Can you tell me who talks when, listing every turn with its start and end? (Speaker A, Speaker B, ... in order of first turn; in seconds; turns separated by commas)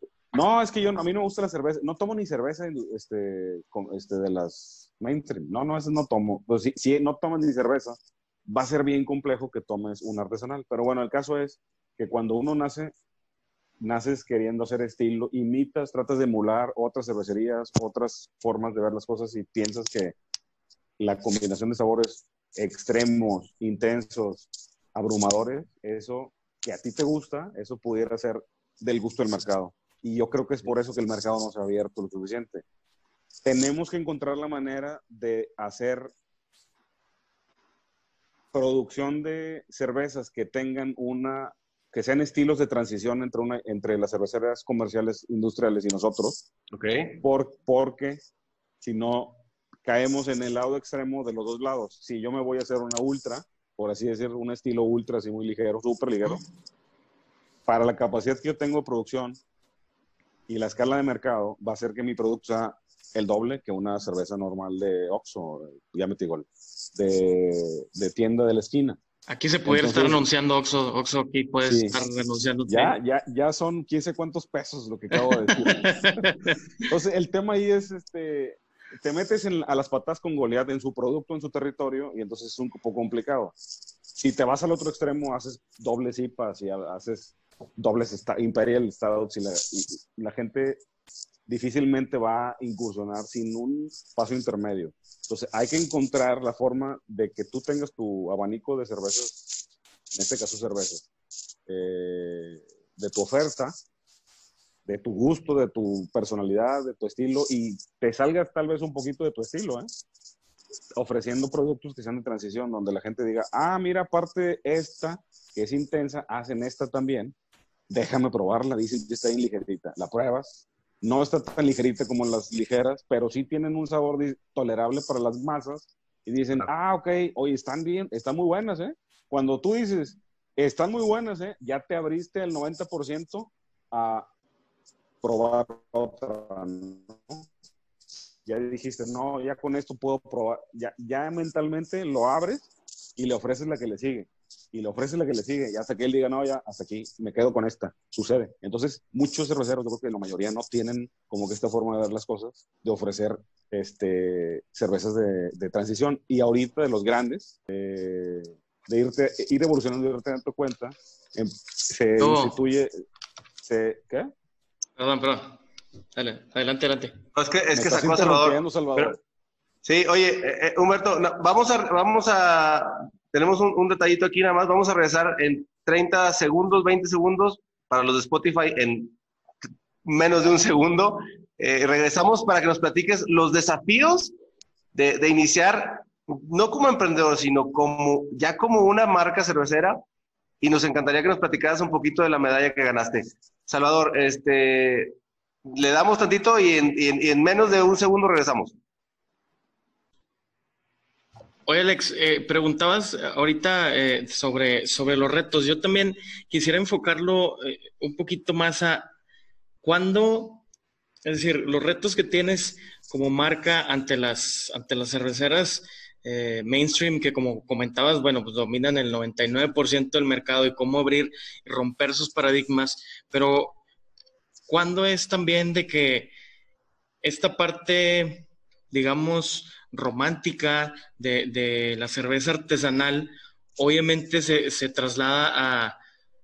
Speaker A: 0.3-12.9, Speaker A: 13.8-20.2, Speaker A: 21.0-32.6, Speaker A: 33.4-36.1, Speaker A: 38.5-46.5, Speaker B: 46.7-47.2, Speaker A: 47.2-48.2, Speaker A: 48.8-56.4, Speaker A: 57.7-59.4, Speaker A: 60.5-69.0, Speaker C: 69.3-73.0, Speaker A: 69.7-70.3, Speaker A: 71.7-72.0, Speaker A: 72.7-76.3, Speaker C: 75.1-76.6, Speaker A: 76.9-83.6, Speaker A: 84.2-90.8, Speaker A: 91.5-99.5, Speaker A: 100.1-101.1, Speaker A: 101.7-103.8, Speaker A: 104.9-109.9, Speaker A: 111.0-117.3, Speaker A: 117.9-134.3, Speaker A: 135.2-137.5, Speaker A: 138.5-163.0, Speaker C: 162.2-162.6, Speaker A: 163.6-164.3, Speaker C: 165.0-165.6, Speaker C: 166.2-167.2, Speaker B: 167.3-169.2, Speaker A: 167.8-169.2, Speaker B: 169.8-179.2, Speaker B: 180.0-184.3, Speaker B: 184.9-190.0, Speaker B: 190.6-195.2, Speaker B: 195.7-198.8, Speaker C: 201.7-209.1, Speaker C: 209.8-210.6, Speaker C: 211.2-223.8, Speaker C: 224.7-226.3, Speaker C: 227.2-236.0